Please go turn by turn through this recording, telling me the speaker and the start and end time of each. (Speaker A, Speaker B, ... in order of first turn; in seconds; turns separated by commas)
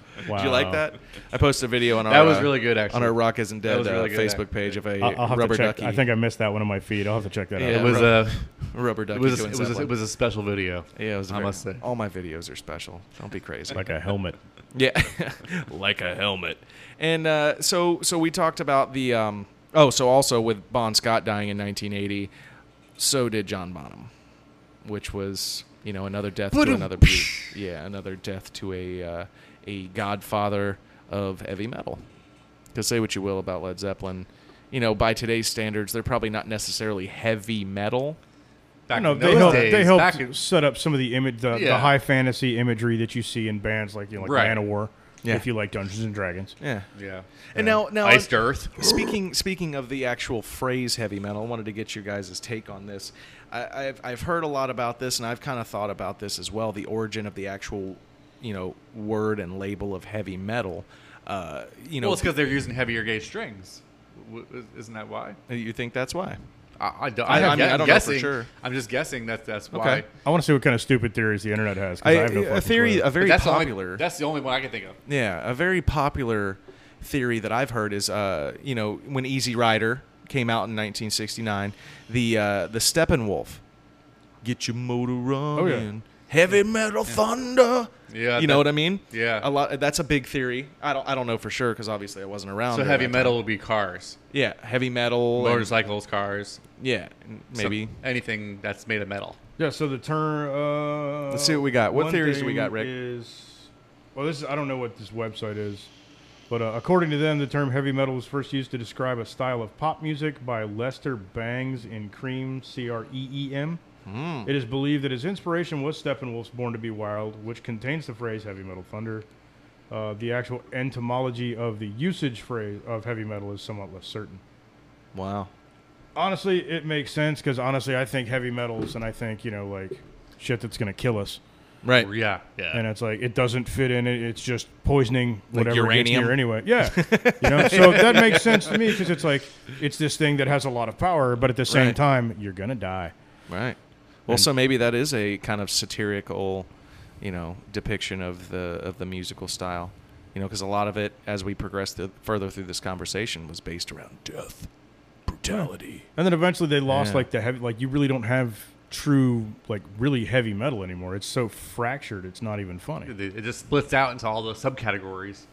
Speaker A: 0.2-6.0, Speaker B: 0.2-0.8, Speaker C: 2.0-4.8, Speaker B: 5.0-8.0, Speaker A: 7.5-9.9, Speaker C: 7.7-8.5, Speaker C: 9.1-11.8, Speaker A: 10.9-13.8, Speaker B: 13.7-14.3, Speaker A: 14.7-22.3, Speaker A: 23.0-24.1, Speaker A: 24.8-32.0, Speaker C: 26.5-27.5, Speaker A: 32.7-38.2, Speaker C: 38.9-40.3, Speaker B: 38.9-46.6, Speaker A: 39.2-39.8, Speaker C: 41.5-41.9, Speaker C: 44.2-44.6, Speaker A: 46.6-46.9, Speaker C: 46.9-48.9, Speaker A: 47.5-62.3, Speaker C: 62.0-65.4, Speaker A: 65.5-66.4, Speaker C: 66.8-70.1, Speaker A: 67.2-68.5, Speaker A: 69.7-70.0, Speaker B: 70.2-73.1, Speaker A: 72.0-74.0, Speaker C: 73.2-75.0, Speaker A: 75.0-83.6, Speaker A: 84.4-93.4, Speaker B: 85.5-85.9, Speaker C: 88.1-89.5, Speaker C: 92.7-94.2, Speaker A: 94.3-95.7, Speaker C: 95.4-96.6, Speaker A: 96.8-97.9, Speaker C: 97.5-99.4, Speaker B: 99.6-105.9, Speaker A: 101.3-102.9, Speaker B: 106.5-113.8, Speaker A: 114.0-114.5, Speaker B: 114.4-119.2, Speaker B: 119.9-124.4, Speaker A: 125.1-125.5, Speaker B: 126.2-131.4, Speaker A: 131.8-132.1, Speaker C: 131.9-132.8, Speaker B: 132.7-143.1, Speaker A: 135.5-138.4, Speaker C: 137.6-138.5, Speaker A: 141.7-142.0, Speaker A: 143.5-146.7, Speaker A: 147.2-154.7, Speaker A: 155.3-156.1, Speaker B: 156.2-163.1, Speaker A: 156.9-157.2, Speaker C: 163.0-165.4